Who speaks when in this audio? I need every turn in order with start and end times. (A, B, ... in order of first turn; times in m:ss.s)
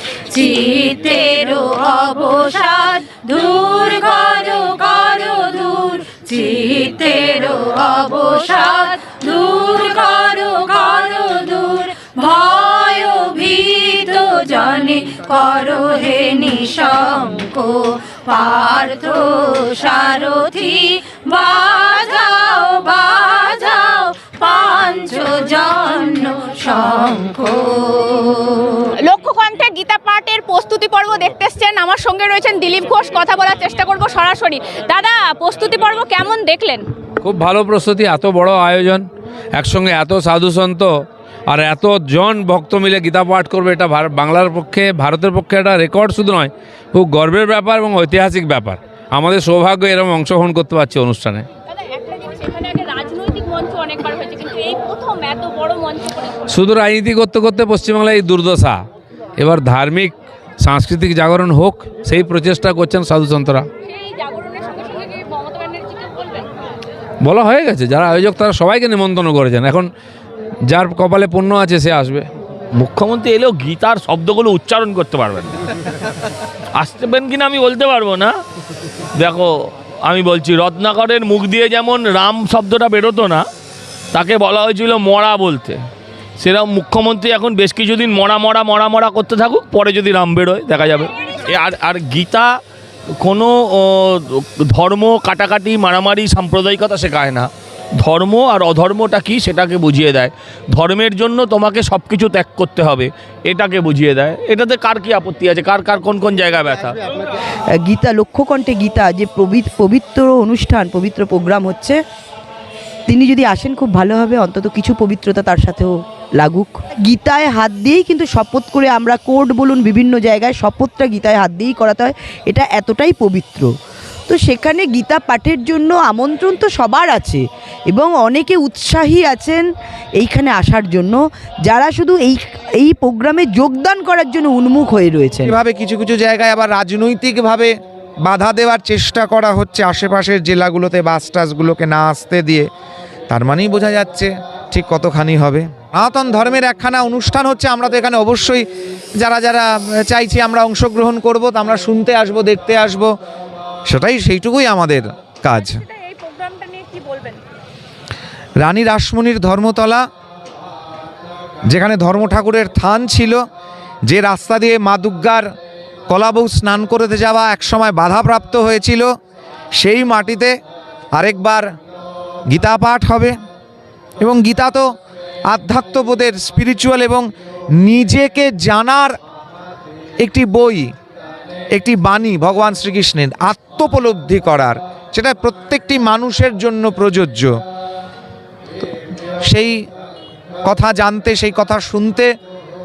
0:00.3-0:28.9 A
0:29.0-0:36.8 B
0:37.2-0:40.9 C
0:41.5-0:51.5 C
0:51.7-0:56.5 B
0:56.5-0:58.8 C
0:59.4-1:03.7 C
1:03.8-1:06.5 B
1:07.2-1:09.9 C
1:10.7-1:12.3 C
1:12.8-1:15.5 D
1:16.8-1:18.3 D
1:19.2-1:19.5 D
1:20.0-1:23.5 D
1:24.1-1:25.8 D
1:26.4-1:32.5 D
1:33.2-1:37.5 D
1:38.0-1:47.0 D
1:47.8-1:52.0 E
1:53.1-2:03.7 E
2:04.3-2:09.6 E
2:10.2-2:15.6 E
2:15.5-2:17.7 F
2:18.2-2:22.7 F
2:23.3-2:28.6 F
2:29.2-2:33.1 F
2:33.9-2:35.8 F
2:35.5-2:37.4 B
2:38.6-2:40.0 F
2:41.7-2:43.4 F
2:44.1-2:45.4 F
2:46.1-2:49.1 F
2:49.8-2:50.5 F
2:51.2-2:51.6 F
2:52.5-2:53.3 F
2:54.2-2:54.8 F
2:55.5-2:57.2 F
2:57.8-2:59.1 F
3:00.2-3:00.9 F
3:01.8-3:07.5 F
3:09.5-3:09.8 F
3:10.7-3:12.3 F